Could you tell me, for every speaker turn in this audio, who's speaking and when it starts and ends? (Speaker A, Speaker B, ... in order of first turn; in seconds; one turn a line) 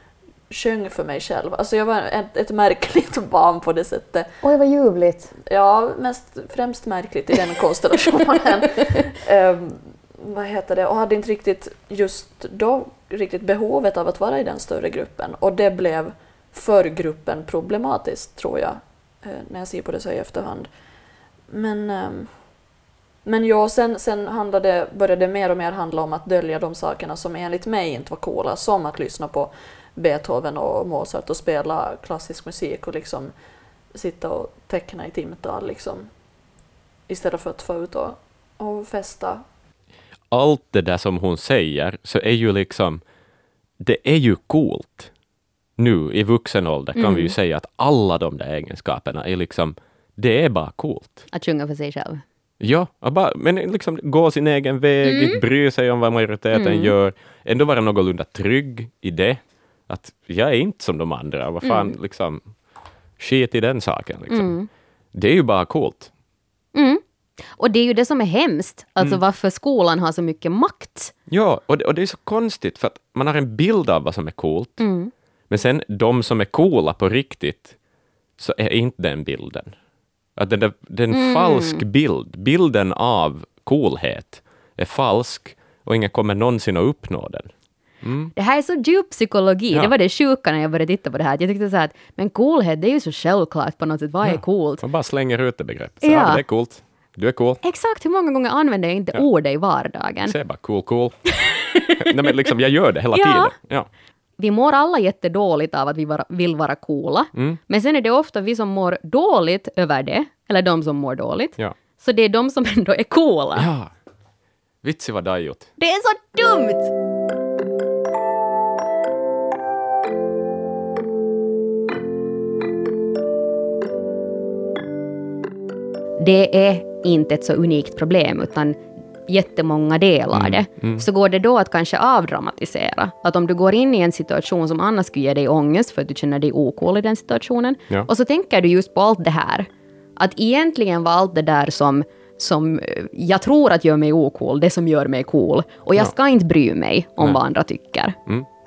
Speaker A: 0.5-4.4
Speaker B: 4.4-5.3
Speaker A: 5.5-20.7
Speaker A: 21.5-22.4
Speaker A: 23.2-33.3
Speaker A: 33.9-36.1
Speaker A: 37.1-39.4
Speaker C: 40.3-43.0
Speaker C: 43.8-45.1
Speaker C: 45.8-51.2
Speaker B: 47.0-47.3
Speaker B: 51.3-52.2
Speaker C: 52.6-62.6
Speaker B: 55.0-55.4
Speaker B: 56.5-57.0
Speaker B: 61.6-61.9
Speaker C: 63.2-66.1
Speaker B: 64.3-64.7
Speaker B: 66.8-67.0
Speaker B: 67.5-71.1
Speaker C: 71.3-74.9
Speaker B: 74.8-75.1
Speaker C: 75.5-77.8
Speaker C: 78.4-79.8
Speaker C: 80.3-88.3
Speaker B: 81.1-81.8
Speaker B: 88.3-94.8
Speaker C: 94.2-97.6
Speaker B: 96.0-96.4
Speaker B: 97.6-100.4
Speaker C: 100.2-101.4
Speaker B: 101.5-102.0
Speaker C: 102.0-103.9
Speaker B: 103.1-103.5
Speaker B: 104.4-113.7
Speaker C: 107.3-107.6
Speaker C: 113.5-113.9
Speaker C: 114.8-115.7
Speaker B: 115.8-116.9
Speaker B: 126.2-148.2
Speaker C: 130.3-131.1